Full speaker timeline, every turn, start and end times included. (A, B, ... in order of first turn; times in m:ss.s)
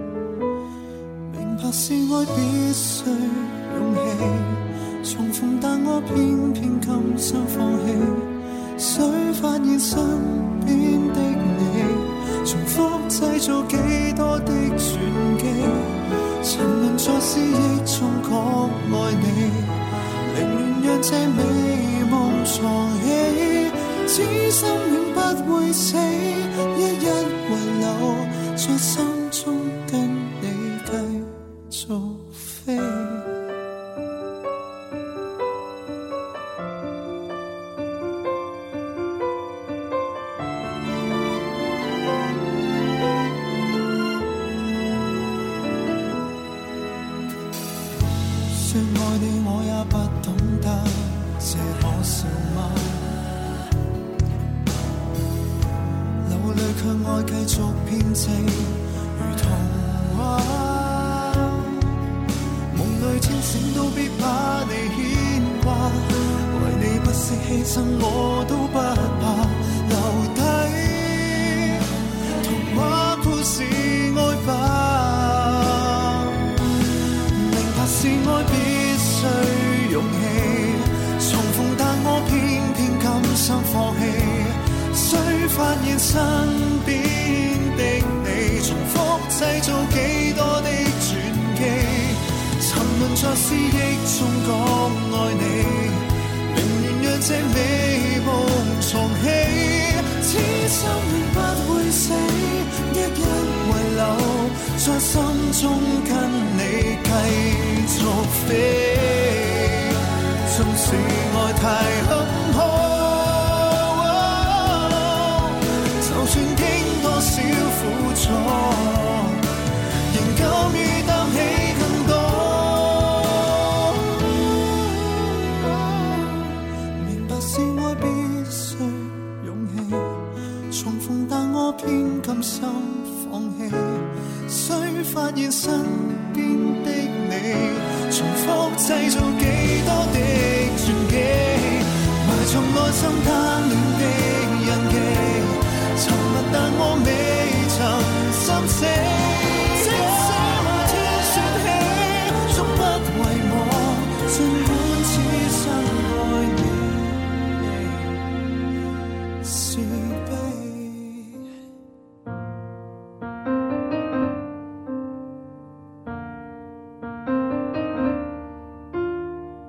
0:01.3-0:33.4 A
0:48.5-0:53.3 A
0:56.2-1:01.9 A
1:02.7-1:16.5 A
1:17.3-1:59.5 A
2:00.0-2:38.3 A
2:39.4-2:41.5 A